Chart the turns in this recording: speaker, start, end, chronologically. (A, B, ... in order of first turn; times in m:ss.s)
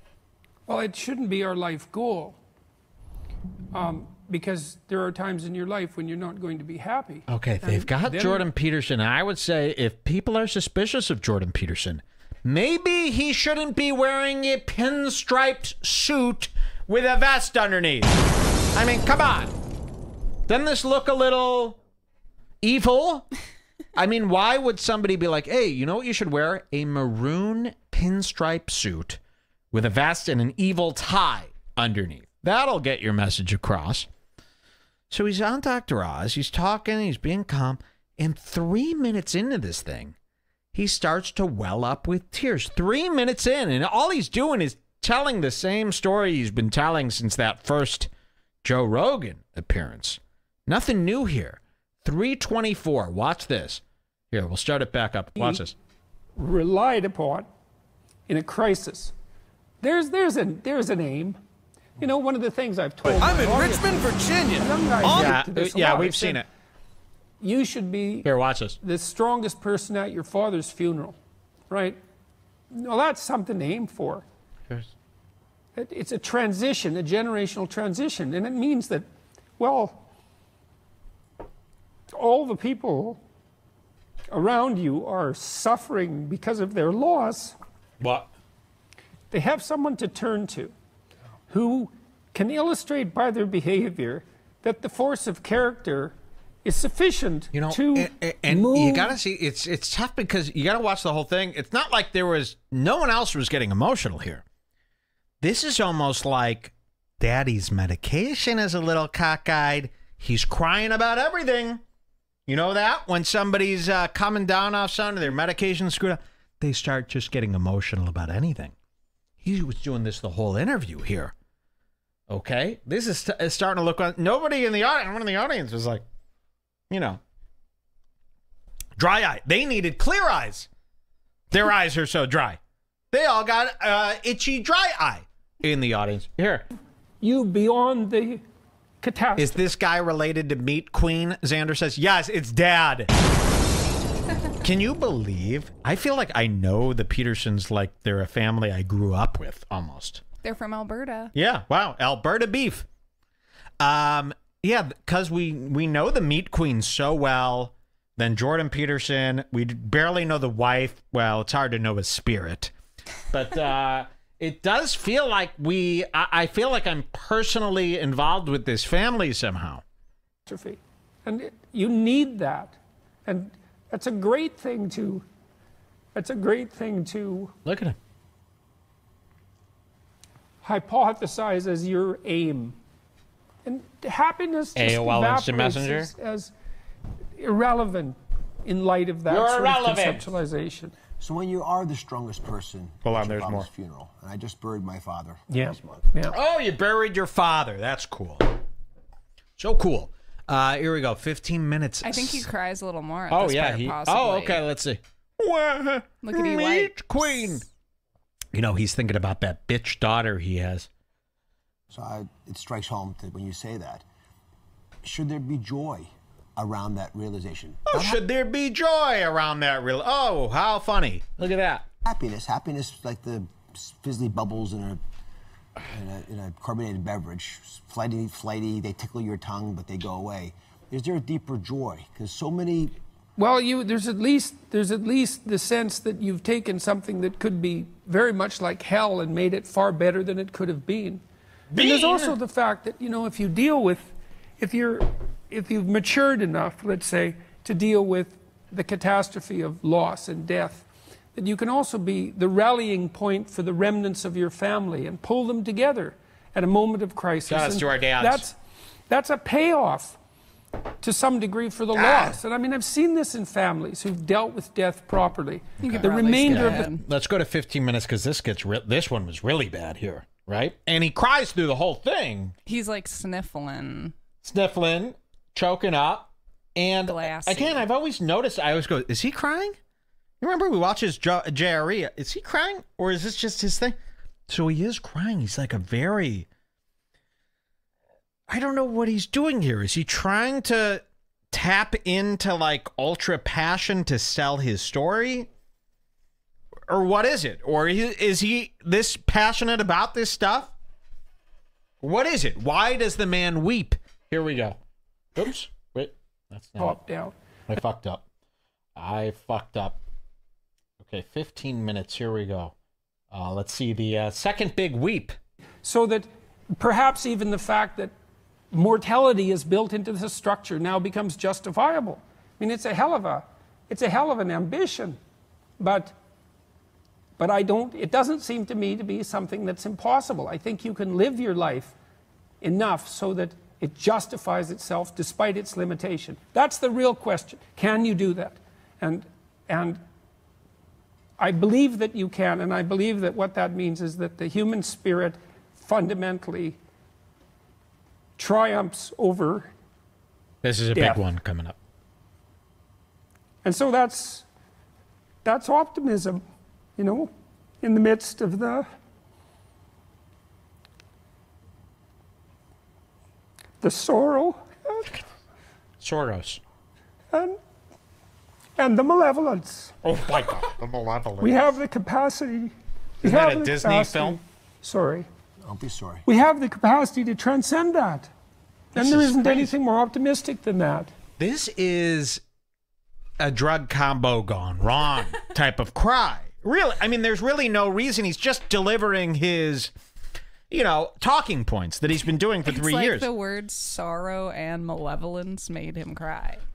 0:00.7-0:02.4 A
0:03.7-0:08.5 A
0:07.3-0:18.1 B
0:18.7-0:19.5 B
0:20.5-0:21.8 B
0:22.6-0:23.3 B
0:23.9-0:29.2 B
0:29.7-0:34.1 B
0:35.1-0:40.2 B
0:40.7-0:48.1 B
0:48.6-0:55.8 B
0:55.4-0:55.6 A
0:56.4-0:57.5 A
0:58.3-0:59.1 A
0:59.8-1:01.4 A
1:02.0-1:06.4 A
1:03.0-1:06.5 B
1:07.4-1:08.3 A
1:08.2-1:08.8 B
1:08.8-1:11.2 A
1:11.7-1:12.0 A
1:12.7-1:14.2 A
1:15.8-1:19.1 A
1:19.6-1:20.0 A
1:22.1-1:23.2 A
1:24.3-1:27.6 A
1:28.0-1:28.3 B
1:29.3-1:30.7 A
1:31.5-1:39.2 A
1:37.5-1:44.4 B
1:45.4-1:51.8 B
1:52.5-1:58.8 B
1:59.4-2:01.3 B
2:02.3-2:06.0 B
2:06.9-2:07.2 B
2:09.0-2:10.7 B
2:11.5-2:12.6 B
2:13.1-2:16.6 B
2:17.2-2:18.4 A
2:19.0-2:19.6 A
2:19.4-2:23.1 B
2:24.6-2:30.2 B
2:30.4-2:31.3 C
2:31.3-2:32.9 B
2:33.8-2:42.7 B
2:43.3-2:49.8 B
2:50.5-2:55.3 A
2:56.2-2:57.5 A
2:57.6-2:58.0 B
3:00.6-3:02.8 A
3:03.6-3:06.5 A
3:04.8-3:06.1 B
3:07.4-3:11.0 A
3:09.3-3:10.3 B
3:11.2-3:16.1 D
3:13.0-3:13.7 B
3:15.5-3:16.4 A
3:16.3-3:18.5 B
3:19.6-3:22.5 B
3:22.0-3:24.6 C
3:23.3-3:27.6 B
3:26.2-3:27.5 C
3:28.5-3:30.9 B
3:31.9-3:34.0 D
3:35.0-3:38.2 D
3:37.9-3:41.8 B
3:42.0-3:45.0 D
3:45.8-3:53.0 D
3:53.4-4:01.2 A
4:01.7-4:02.4 B
4:01.7-4:18.6 A
4:17.5-4:18.5 B
4:19.1-4:20.2 A
4:21.0-4:26.9 A
4:22.0-4:22.4 B
4:25.8-4:27.0 C
4:25.8-4:32.6 B
4:32.6-4:34.2 C
4:34.4-4:39.8 B
4:37.1-4:37.9 C
4:40.4-4:44.0 B
4:44.5-4:46.5 B
4:48.5-4:55.5 B
4:56.9-5:00.7 B
5:02.0-5:04.8 B
5:05.4-5:07.0 B
5:06.8-5:07.4 A
5:07.7-5:08.2 B
5:09.0-5:10.0 B
5:11.0-5:12.8 B
5:13.3-5:15.4 B
5:15.8-5:18.1 A
5:18.7-5:25.2 A
5:25.8-5:26.2 A
5:27.4-5:32.0 A
5:32.6-5:40.0 A
5:41.4-5:46.8 A
5:48.4-5:49.7 A
5:50.6-5:51.8 B
5:50.9-5:51.2 A
5:53.6-5:54.5 A
5:55.4-5:56.4 A
5:57.0-5:57.3 A
5:57.8-5:58.9 A
6:03.8-6:05.1 A
6:06.0-6:06.6 B
6:07.3-6:07.6 A
6:08.8-6:10.0 A
6:10.0-6:11.8 B
6:11.4-6:15.3 A
6:13.2-6:14.4 B
6:15.6-6:16.3 D
6:16.3-6:18.3 A
6:19.0-6:19.7 B
6:19.0-6:21.1 A
6:21.4-6:22.4 B
6:23.4-6:29.9 B
6:30.7-6:33.3 B
6:32.6-6:36.6 C